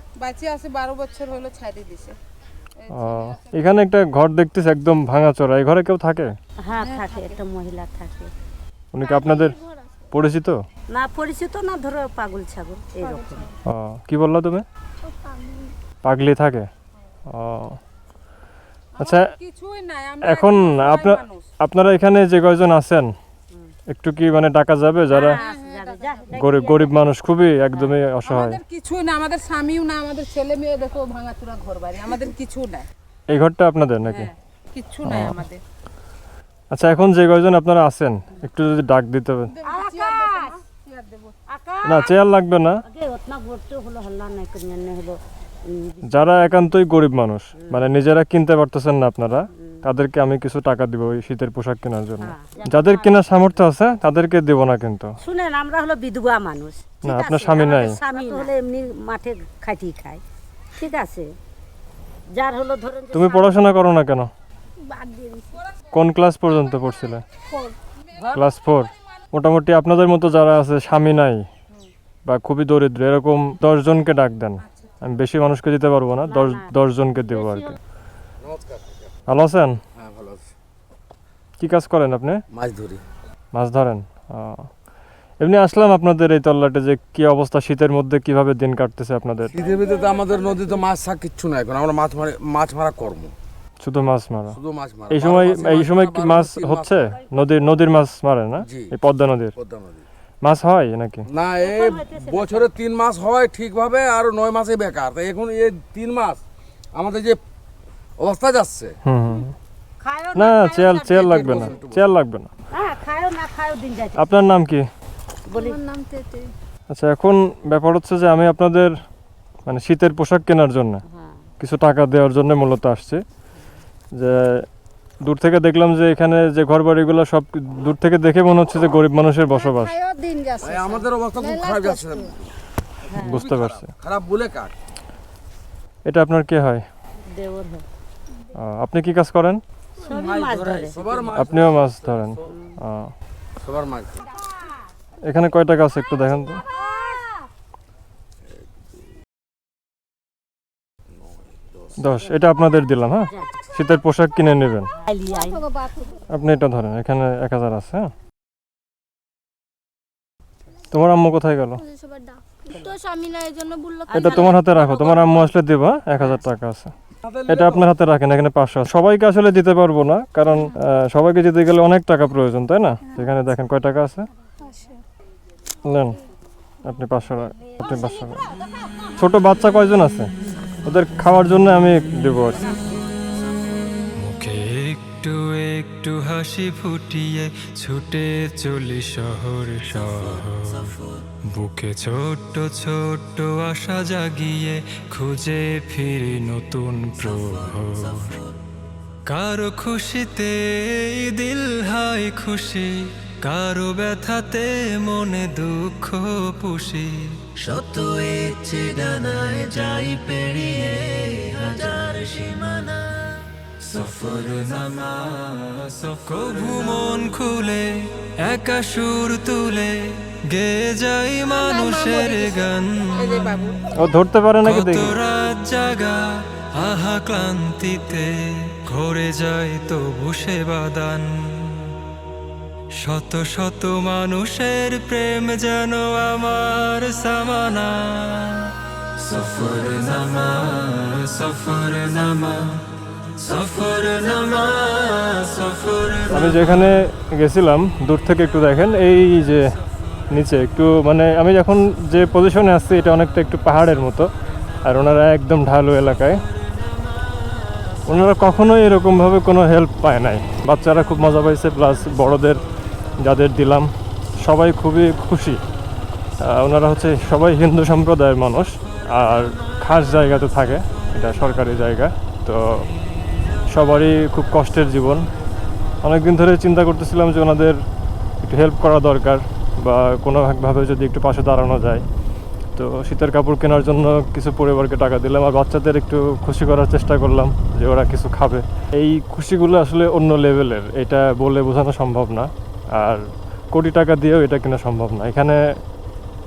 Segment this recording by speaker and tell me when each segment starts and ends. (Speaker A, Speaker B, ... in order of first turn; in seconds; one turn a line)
Speaker A: 0.2-2.1
Speaker A: 2.8-3.7
Speaker B: 2.9-6.3
Speaker C: 6.6-8.3
Speaker A: 6.8-7.4
Speaker B: 8.9-9.6
Speaker D: 9.0-9.9
Speaker B: 10.1-10.6
Speaker C: 10.9-13.5
Speaker A: 13.0-13.5
Speaker B: 13.7-14.7
Speaker D: 15.1-15.7
Speaker B: 16.0-16.7
Speaker B: 17.3-17.8
Speaker B: 19.0-19.3
Speaker A: 19.0-21.4
Speaker B: 20.2-23.1
Speaker B: 23.9-25.4
Speaker C: 25.1-26.9
Speaker A: 25.1-26.8
Speaker B: 26.3-28.6
Speaker A: 28.2-32.9
Speaker B: 33.3-34.3
Speaker A: 34.1-35.6
Speaker B: 35.0-35.4
Speaker B: 36.7-39.5
Speaker A: 39.6-41.3
Speaker C: 39.6-40.6
Speaker C: 41.5-42.2
Speaker B: 41.8-42.8
Speaker C: 42.9-46.7
Speaker B: 46.1-55.1
Speaker C: 47.6-47.9
Speaker C: 52.2-53.6
Speaker C: 55.2-60.2
Speaker B: 57.0-58.0
Speaker C: 60.8-61.3
Speaker C: 62.3-63.7
Speaker B: 63.1-64.3
Speaker D: 64.8-65.6
Speaker B: 65.9-67.2
Speaker D: 67.5-67.8
Speaker B: 68.3-71.5
Speaker B: 72.2-77.8
Speaker C: 76.3-76.7
Speaker C: 77.2-77.8
Speaker E: 78.4-79.0
Speaker B: 79.3-79.8
Speaker E: 80.0-80.5
Speaker B: 81.6-82.4
Speaker E: 82.5-83.0
Speaker B: 83.5-84.7
Speaker B: 85.4-89.7
Speaker E: 89.5-93.3
Speaker B: 93.8-94.6
Speaker E: 94.5-97.0
Speaker B: 95.1-99.5
Speaker C: 97.0-97.9
Speaker E: 98.6-98.9
Speaker E: 99.6-100.0
Speaker B: 100.4-101.3
Speaker E: 101.3-106.4
Speaker C: 101.6-102.7
Speaker E: 106.9-107.4
Speaker E: 108.2-109.0
Speaker B: 109.0-109.5
Speaker C: 110.0-111.6
Speaker B: 110.3-112.5
Speaker E: 111.0-112.1
Speaker C: 112.7-114.2
Speaker B: 114.2-114.8
Speaker C: 115.5-115.8
Speaker D: 115.5-116.5
Speaker B: 116.9-119.0
Speaker B: 119.7-121.0
Speaker C: 121.1-121.4
Speaker B: 121.6-123.2
Speaker B: 124.1-124.7
Speaker B: 125.2-130.0
Speaker D: 129.5-130.8
Speaker E: 130.6-132.3
Speaker D: 131.4-132.3
Speaker C: 133.1-133.5
Speaker B: 133.2-133.9
Speaker E: 133.2-134.7
Speaker B: 136.1-136.8
Speaker C: 137.3-137.8
Speaker B: 138.6-139.6
Speaker C: 140.0-141.2
Speaker E: 140.1-142.4
Speaker B: 141.3-143.1
Speaker E: 143.6-144.2
Speaker B: 145.2-146.6
Speaker C: 146.7-147.2
Speaker B: 152.0-154.9
Speaker C: 155.0-155.7
Speaker D: 155.4-156.2
Speaker B: 156.3-158.1
Speaker B: 160.9-161.8
Speaker D: 161.8-165.4
Speaker C: 162.7-163.0
Speaker C: 164.1-164.6
Speaker B: 164.1-166.9
Speaker C: 166.1-166.4
Speaker E: 167.2-167.8
Speaker B: 167.5-174.3
Speaker D: 174.7-175.0
Speaker B: 175.8-176.2
Speaker B: 176.8-178.5
Speaker B: 179.2-180.3
Speaker B: 180.8-182.7
Speaker F: 184.2-198.5
Speaker F: 199.2-223.8
Speaker A: 221.5-224.0
Speaker B: 223.9-225.2
Speaker F: 224.6-232.0
Speaker F: 232.9-246.9
Speaker B: 246.3-249.7
Speaker B: 250.3-254.3
Speaker B: 254.8-256.4
Speaker F: 257.4-258.0
Speaker B: 258.1-262.6
Speaker B: 263.2-265.6
Speaker B: 266.4-272.9
Speaker B: 273.7-275.3
Speaker B: 276.0-277.9
Speaker B: 278.4-282.1
Speaker B: 282.7-295.8